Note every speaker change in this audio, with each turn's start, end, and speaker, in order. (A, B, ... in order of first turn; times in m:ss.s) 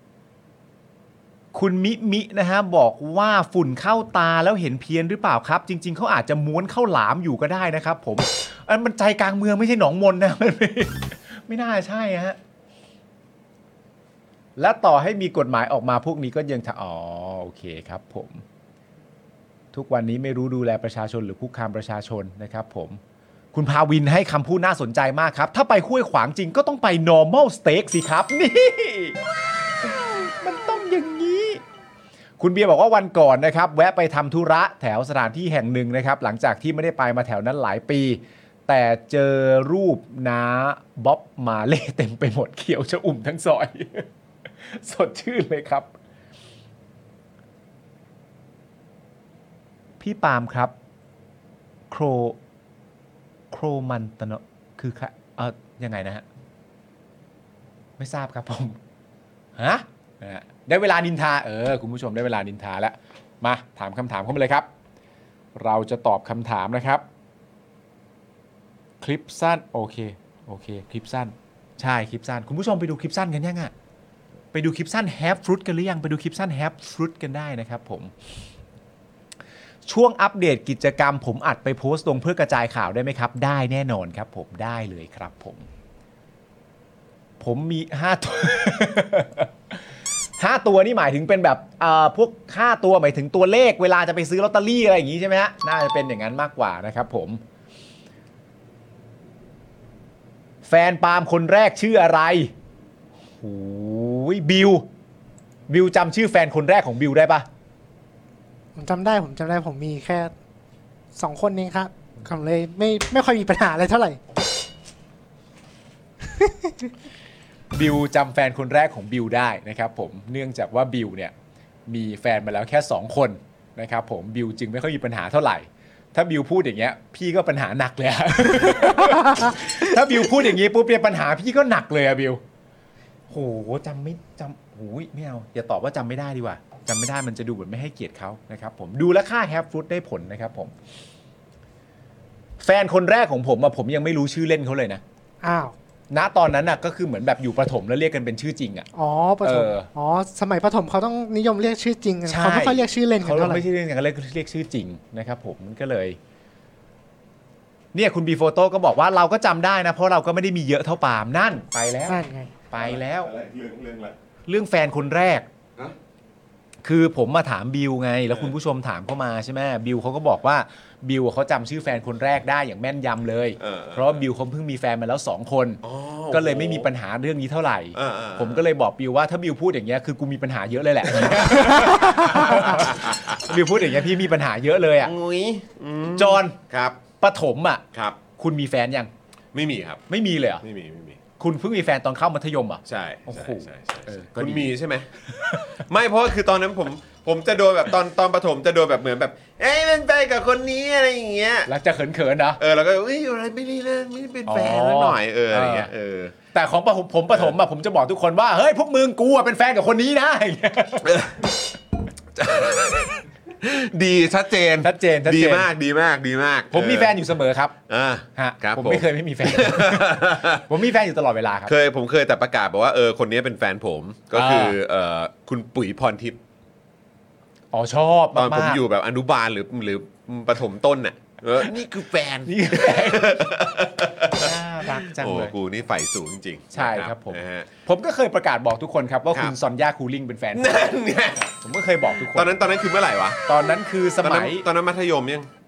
0:01.5-0:12.4 A
0:14.6-0:18.4 A
0:19.7-0:23.0 A
0:23.5-0:29.2 A
0:29.8-0:31.6 A
0:32.4-0:44.1 A
0:44.6-0:45.9 A
0:50.0-0:50.7 A
0:51.9-0:52.4 A
0:53.5-0:56.2 A
0:58.0-0:58.8 A
0:59.6-1:04.7 A
1:05.6-1:07.0 A
1:09.0-1:13.7 A
1:14.5-1:18.1 A
1:19.9-1:25.7 A
1:27.4-1:29.8 A
1:30.4-1:37.4 A
1:40.6-1:42.5 A
1:43.4-1:44.8 A
1:45.7-1:47.5 A
1:48.8-1:50.3 B
1:51.2-1:54.2 B
1:57.7-2:01.3 A
2:01.9-2:12.4 A
2:13.3-2:20.7 A
2:22.6-2:25.0 A
2:25.4-2:25.7 B
2:26.1-2:28.9 A
2:29.0-2:33.7 B
2:29.4-2:29.9 A
2:32.3-2:36.2 A
2:37.9-2:43.3 A
2:42.1-2:42.6 B
2:42.8-2:44.2 C
2:44.5-2:45.5 A
2:46.8-3:05.1 A
2:53.6-2:54.2 C
2:55.8-2:56.9 C
2:58.0-2:58.6 C
3:01.1-3:03.5 C
3:05.0-3:07.0 C
3:06.2-3:06.6 A
3:07.2-3:07.8 A
3:07.9-3:08.2 C
3:08.4-3:09.1 A
3:09.5-3:10.0 C
3:10.1-3:10.6 A
3:10.6-3:11.2 C
3:11.4-3:14.7 A
3:12.9-3:15.1 C
3:15.7-3:21.7 C
3:21.7-3:22.6 A
3:22.6-3:26.4 C
3:24.5-3:25.9 A
3:26.5-3:31.2 A
3:31.0-3:31.4 C
3:32.4-3:37.2 C
3:34.8-3:35.7 A
3:36.7-3:37.8 A
3:37.9-3:40.7 C
3:38.4-3:41.7 A
3:41.7-3:46.4 C
3:44.3-3:44.8 A
3:47.7-3:48.8 A
3:48.3-3:57.7 C
3:52.5-3:53.5 A
3:54.3-3:55.5 A
3:56.7-4:00.9 A
4:00.5-4:01.5 C
4:01.6-4:02.6 A
4:02.2-4:03.4 C
4:03.5-4:04.6 A
4:04.2-4:05.5 C